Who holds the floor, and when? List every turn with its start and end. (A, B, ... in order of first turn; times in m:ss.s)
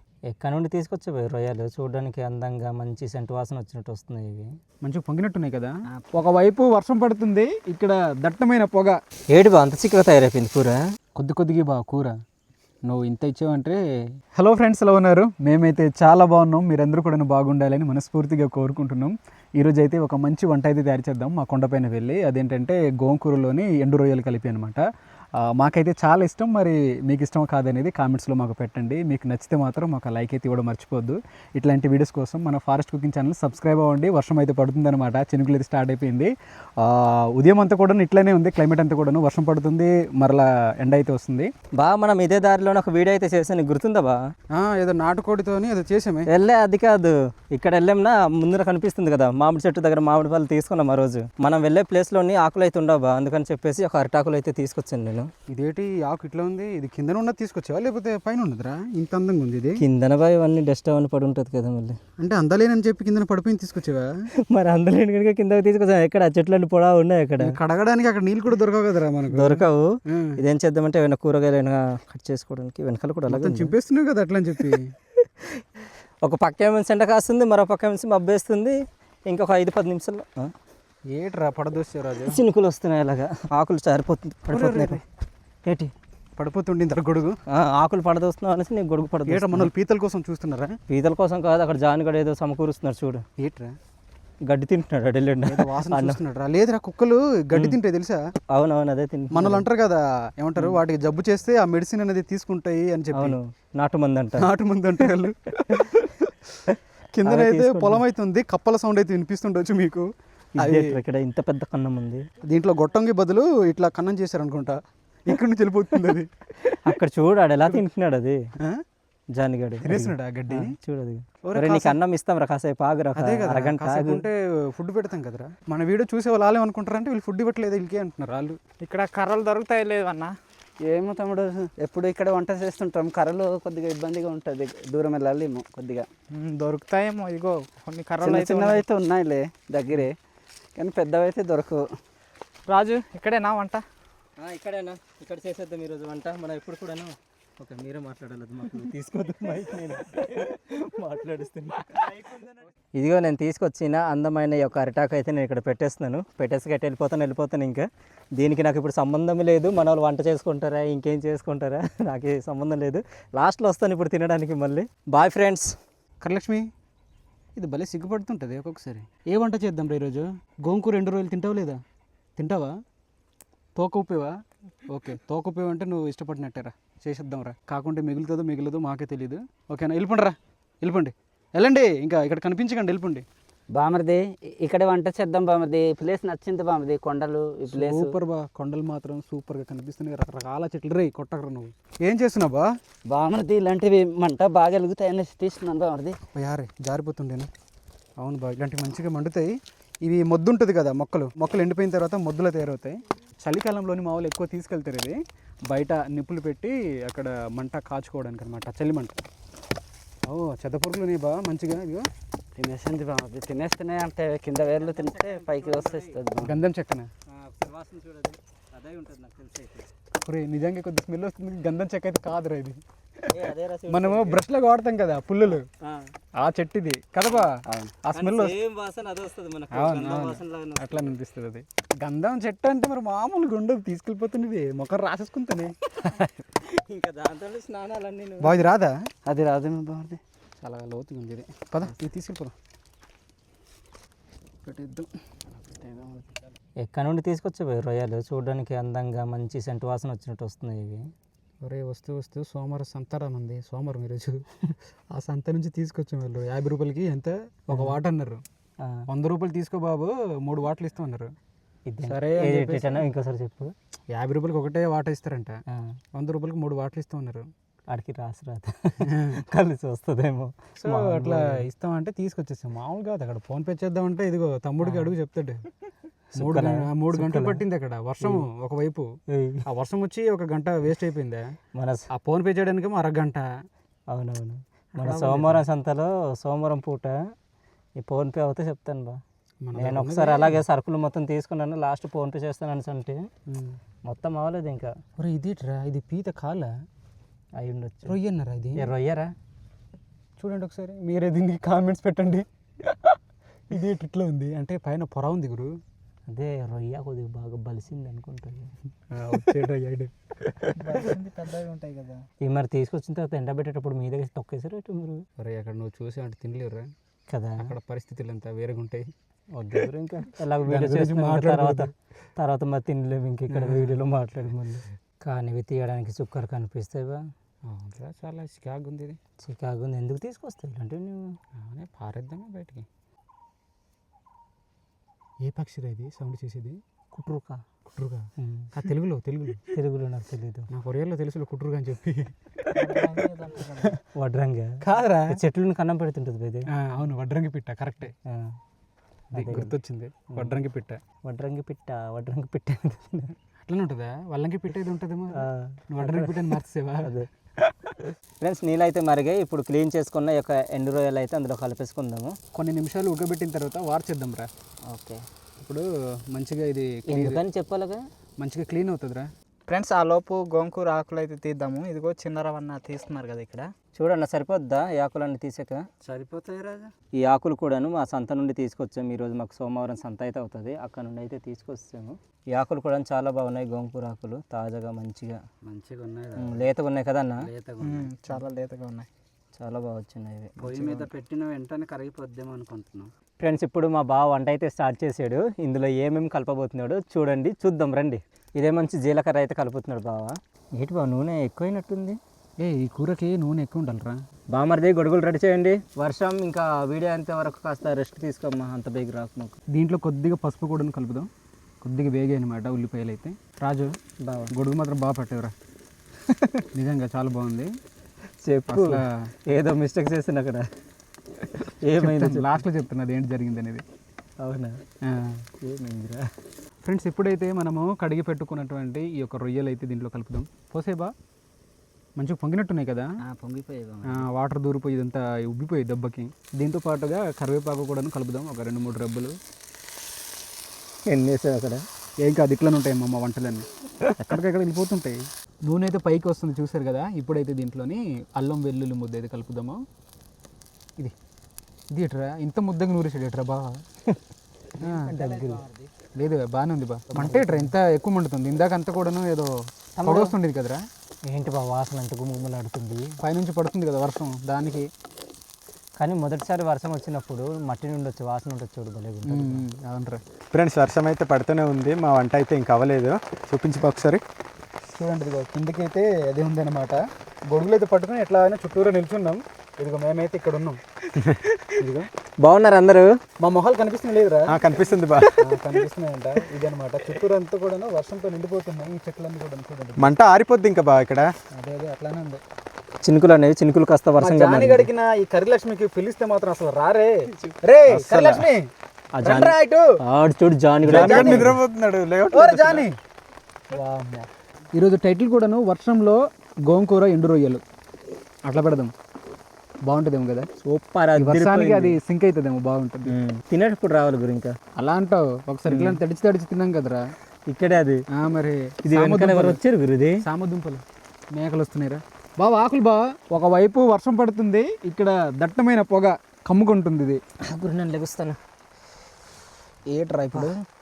0:00.3-0:04.5 A
0:04.8-0:09.0 B
0:09.3-0:10.8 A
0:11.2-0:12.2 B
0:12.9-0:13.8 B
0:14.4-0:24.8 B
0:25.4-0:41.5 B
0:41.8-0:44.2 A
0:44.5-0:46.3 B
0:46.3-0:55.3 A
0:55.5-0:59.8 B
0:59.8-1:02.0 A
1:02.2-1:04.1 B
1:04.5-1:07.5 A
1:07.4-1:10.4 B
1:09.3-1:13.8 A
1:13.3-1:14.9 B
1:16.2-1:18.8 A
1:19.3-1:20.5 A
1:21.1-1:22.4 B
1:22.3-1:25.0 A
1:24.5-1:25.0 B
1:26.4-1:27.4 B
1:27.5-1:29.7 A
1:29.3-1:30.8 B
1:30.9-1:33.2 A
1:33.4-1:33.8 B
1:34.5-1:36.2 A
1:35.5-1:38.2 B
1:38.5-1:39.6 A
1:39.3-1:43.4 B
1:43.1-1:44.5 A
1:44.4-1:46.4 B
1:47.1-1:50.1 B
1:47.2-1:48.0 A
1:50.6-1:52.3 A
1:50.6-1:51.0 B
1:52.4-1:56.3 B
1:56.7-1:58.4 A
1:59.3-2:04.3 A
1:59.8-2:00.8 B
2:01.4-2:02.0 B
2:03.2-2:08.6 B
2:08.8-2:10.3 C
2:08.8-2:10.2 D
2:10.8-2:20.2 D
2:16.3-2:18.9 C
2:18.2-2:18.5 B
2:20.8-2:21.9 D
2:22.7-2:23.8 D
2:24.4-2:32.4 A
2:33.0-2:45.7 A
2:46.2-2:46.7 B
2:47.6-2:51.8 B
2:52.4-2:52.8 B
2:53.8-2:54.3 B
2:54.9-3:03.3 B
3:03.7-3:08.1 D
3:07.7-3:12.7 B
3:13.1-3:16.2 D
3:16.3-3:17.5 B
3:18.2-3:29.2 B
3:30.2-3:32.1 B
3:32.6-3:36.6 D
3:34.6-3:36.2 A
3:36.4-3:37.1 B
3:37.3-3:39.9 A
3:40.2-3:45.7 B
3:43.3-3:44.4 A
3:45.8-3:46.1 A
3:46.4-3:48.6 B
3:47.6-3:48.0 D
3:48.1-3:51.1 A
3:49.7-3:55.7 B
3:56.6-3:58.5 A
3:58.4-3:59.0 B
3:59.3-4:00.2 D
4:00.6-4:02.5 B
4:04.6-4:05.1 B
4:05.8-4:06.2 D
4:06.8-4:11.0 A
4:11.6-4:14.4 B
4:15.1-4:18.4 B
4:19.1-4:21.3 B
4:21.9-4:23.7 A
4:22.0-4:23.1 B
4:24.1-4:25.6 B
4:26.2-4:27.5 B
4:27.9-4:31.6 A
4:29.0-4:29.4 B
4:30.8-4:35.6 B
4:34.8-4:35.1 A
4:36.3-4:39.1 B
4:36.4-4:37.6 A
4:39.3-4:39.6 A
4:39.7-4:41.5 B
4:41.8-4:42.0 A
4:42.1-4:43.5 B
4:44.1-4:47.2 A
4:45.0-4:45.6 B
4:48.0-4:49.2 A
4:49.6-4:50.6 B
4:49.8-4:53.2 A
4:53.5-4:53.8 B
4:54.1-4:54.9 A
4:55.2-4:56.7 B
4:57.6-4:58.2 A
4:58.0-4:58.9 B
4:58.8-4:59.3 A
5:00.4-5:03.2 B
5:03.7-5:05.7 B
5:06.3-5:08.7 A
5:09.1-5:11.0 B
5:10.9-5:12.3 D
5:12.4-5:15.2 A
5:15.4-5:16.9 B
5:17.3-5:17.7 A
5:17.6-5:19.1 B
5:19.6-5:27.2 A
5:20.6-5:21.9 B
5:23.5-5:24.0 B
5:27.7-5:29.2 B
5:29.4-5:31.4 A
5:31.6-5:32.9 B
5:35.4-5:36.8 B
5:37.1-5:37.6 A
5:38.0-5:39.7 B
5:38.4-5:38.7 A
5:39.7-5:40.7 A
5:40.7-5:43.9 B
5:42.8-5:43.9 D
5:44.2-5:44.8 A
5:44.8-5:45.4 B
5:45.3-5:46.7 A
5:46.8-5:48.1 B
5:48.3-5:48.6 A
5:49.3-5:49.8 A
5:49.3-5:51.0 B
5:51.3-5:53.3 A
5:53.7-5:57.2 B
5:55.4-5:56.5 A
5:58.4-6:02.4 A
6:02.5-6:04.5 B
6:04.9-6:05.2 A
6:05.6-6:07.4 B
6:07.1-6:08.0 A
6:08.4-6:09.3 B
6:09.7-6:13.7 D
6:09.7-6:13.6 C
6:14.0-6:15.8 A
6:16.0-6:16.9 D
6:17.2-6:25.4 A
6:25.6-6:26.7 D
6:26.4-6:27.4 A
6:27.4-6:28.4 D
6:27.9-6:29.1 C
6:29.6-6:30.6 A
6:30.6-6:33.1 D
6:30.6-6:31.1 B
6:33.4-6:42.2 A
6:42.6-6:44.2 B
6:44.5-6:49.6 A
6:49.7-6:51.3 B
6:51.8-6:53.9 B
6:54.2-6:54.5 A
6:54.5-6:55.5 B
6:56.7-6:57.7 B
6:58.4-7:00.6 A
6:58.7-6:59.1 B
7:01.8-7:02.6 A
7:02.0-7:03.8 B
7:04.4-7:04.7 A
7:05.0-7:05.4 B
7:05.6-7:06.2 A
7:06.8-7:11.1 B
7:12.2-7:13.1 B
7:13.2-7:14.3 D
7:14.0-7:19.4 B
7:21.1-7:21.8 A
7:22.2-7:23.7 B
7:24.2-7:29.8 B
7:31.9-7:33.8 B
7:34.8-7:35.2 B
7:35.0-7:35.6 A
7:35.1-7:35.9 D
7:36.2-7:40.8 B
7:37.2-7:37.7 A
7:40.0-7:40.4 A
7:41.3-7:43.2 A
7:43.2-7:44.9 B
7:46.0-7:49.6 A
7:49.3-7:50.2 B
7:50.5-7:54.2 E
7:54.9-8:00.8 B
8:01.8-8:02.1 B
8:02.4-8:03.1 A
8:03.4-8:04.6 B
8:04.5-8:05.4 E
8:05.4-8:10.1 B
8:10.0-8:11.3 E
8:11.5-8:12.4 B
8:13.0-8:14.9 A
8:14.2-8:18.7 B
8:17.9-8:18.5 E
8:19.2-8:21.6 A
8:19.2-8:19.9 B
8:20.8-8:22.9 E
8:20.9-8:21.6 B
8:22.3-8:23.0 B
8:23.7-8:27.6 B
8:28.5-8:28.9 B
8:29.8-8:30.5 B
8:30.6-8:32.0 A
8:31.2-8:33.1 B
8:33.1-8:34.5 A
8:34.8-8:37.0 B
8:35.7-8:36.0 A
8:37.5-8:38.0 A
8:38.1-8:39.6 B
8:38.8-8:40.2 A
8:40.2-8:40.8 B
8:41.3-8:47.2 B
8:47.5-8:48.4 A
8:49.9-8:50.6 B